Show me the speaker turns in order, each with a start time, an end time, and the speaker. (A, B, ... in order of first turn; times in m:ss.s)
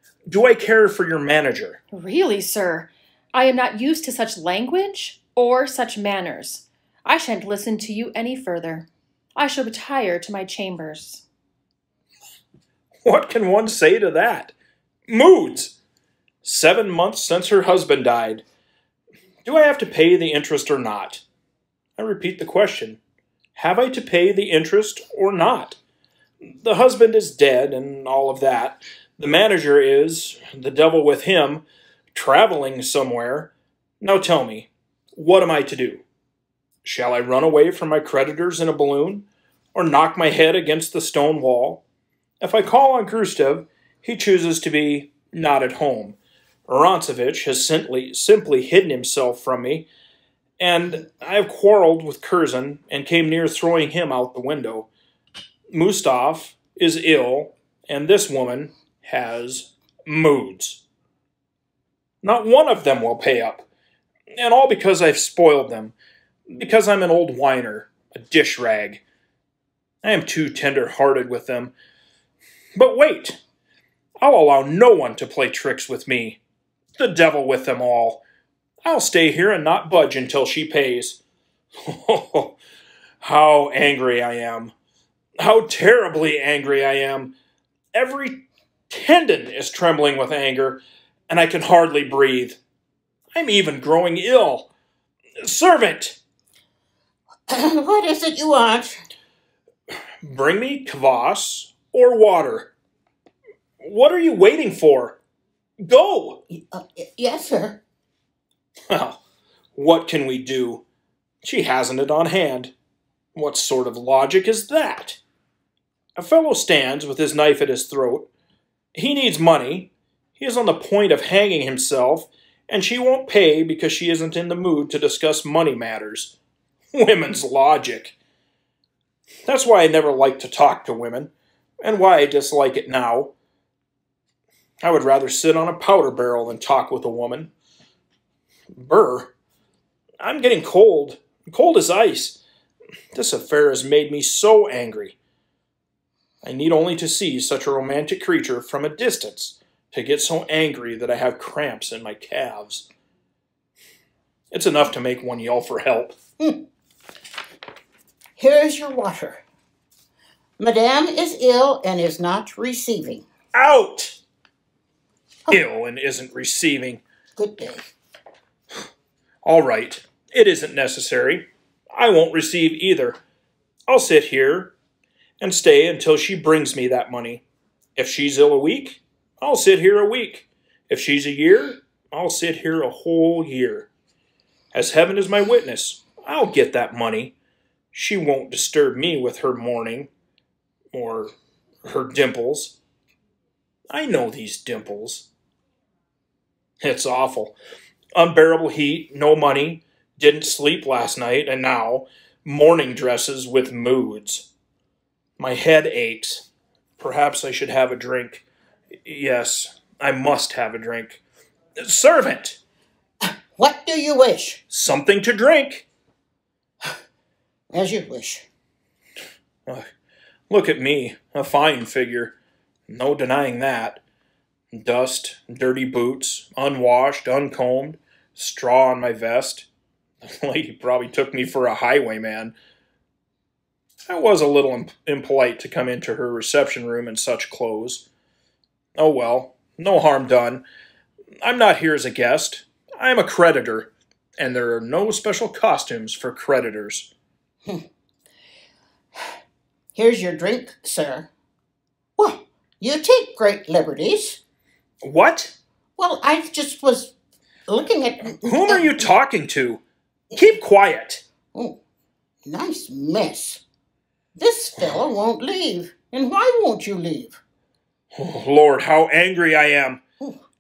0:00.3-0:01.8 A
0:01.9-0:11.2 B
0:13.0-0:14.5 A
0:15.1-0:15.8 A
0:16.4-0:18.4 A
0:19.4-0:21.2 A
0:22.0-0:23.0 A
0:23.6-0:25.8 A
0:26.4-0:36.0 A
0:36.8-0:41.8 A
0:42.4-0:46.2 A
0:46.7-0:49.9 A
0:50.6-0:54.9 A
0:55.7-1:00.8 A
1:02.2-1:03.7 A
1:04.3-1:05.9 A
1:06.5-1:09.0 A
1:10.0-1:11.7 A
1:12.8-1:13.4 A
1:14.2-1:16.4 A
1:17.0-1:18.2 A
1:18.8-1:21.2 A
1:21.8-1:22.6 A
1:23.2-1:24.7 A
1:25.4-1:27.3 A
1:27.9-1:32.6 A
1:33.3-1:34.7 A
1:35.4-1:36.2 A
1:37.5-1:39.0 C
1:40.2-1:42.7 A
1:43.8-1:45.2 A
1:45.8-1:46.4 A
1:46.5-1:47.8 C
1:48.9-1:49.2 A
1:49.8-1:50.8 A
1:51.4-1:52.7 A
1:53.4-1:55.2 A
1:56.2-1:58.3 A
1:58.9-2:06.4 A
2:06.9-2:08.2 A
2:09.5-2:11.3 A
2:11.8-2:13.3 A
2:14.8-2:17.5 A
2:18.8-2:19.3 A
2:20.2-2:22.4 A
2:23.1-2:25.2 A
2:26.4-2:32.9 A
2:34.5-2:36.2 A
2:36.4-2:36.7 C
2:38.4-2:39.4 C
2:40.6-2:43.3 C
2:43.5-2:44.2 A
2:45.5-2:47.0 A
2:47.4-2:47.9 C
2:49.4-2:53.2 A
2:53.9-2:54.7 A
2:55.4-2:57.4 A
2:58.0-3:03.9 A
3:04.7-3:07.4 A
3:07.9-3:10.1 A
3:10.9-3:11.3 A
3:11.8-3:12.8 A
3:13.9-3:15.3 A
3:16.8-3:17.6 A
3:18.2-3:24.5 A
3:25.4-3:26.5 A
3:27.0-3:28.4 A
3:29.0-3:31.2 A
3:31.8-3:32.6 A
3:33.2-3:34.6 C
3:34.7-3:35.9 A
3:37.7-3:38.5 C
3:40.5-3:42.4 A
3:42.9-3:44.0 A
3:44.7-3:49.7 A
3:50.2-3:52.6 A
3:54.1-3:58.1 A
3:59.0-4:00.6 A
4:01.4-4:07.1 A
4:09.9-4:11.3 C
4:12.2-4:14.4 C
4:15.0-4:15.6 A
4:16.0-4:17.1 C
4:17.7-4:19.1 C
4:18.3-4:21.2 A
4:21.5-4:21.8 C
4:22.4-4:23.6 C
4:24.4-4:27.4 C
4:28.1-4:30.0 A